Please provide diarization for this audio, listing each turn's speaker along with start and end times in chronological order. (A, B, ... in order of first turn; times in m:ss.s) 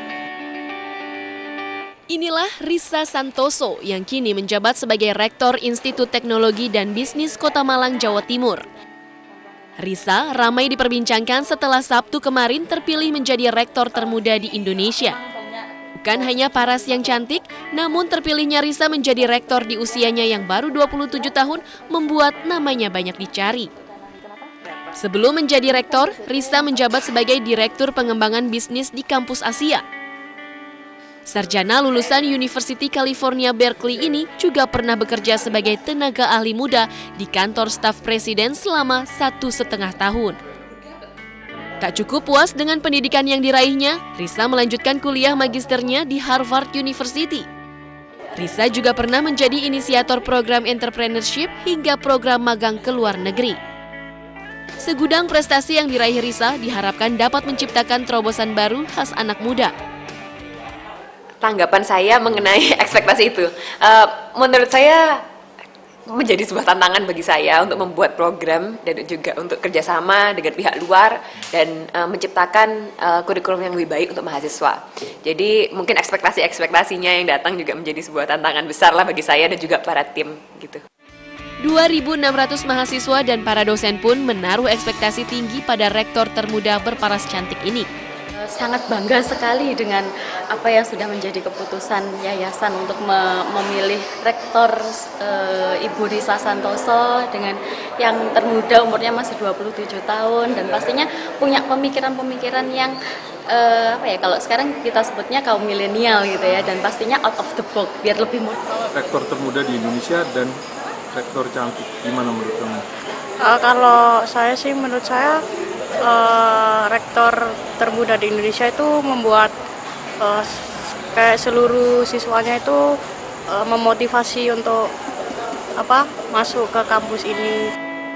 0:02.1-0:08.7 A
0:09.8-0:15.2 A
0:16.0-0:23.7 A
0:24.9-0:29.8 A
0:31.3-0:40.4 A
0:41.8-0:47.5 A
0:48.4-0:53.6 A
0:54.8-0:59.7 A
1:01.4-1:05.2 B
1:06.1-1:20.8 B
1:21.6-1:27.9 A
1:28.4-1:43.0 C
1:43.5-1:48.6 C
1:49.0-1:50.6 D
1:51.1-1:52.8 D
1:53.4-1:55.4 E
1:56.0-1:59.5 E
2:00.2-2:03.0 E
2:03.5-2:04.9 E
2:05.8-2:07.7 E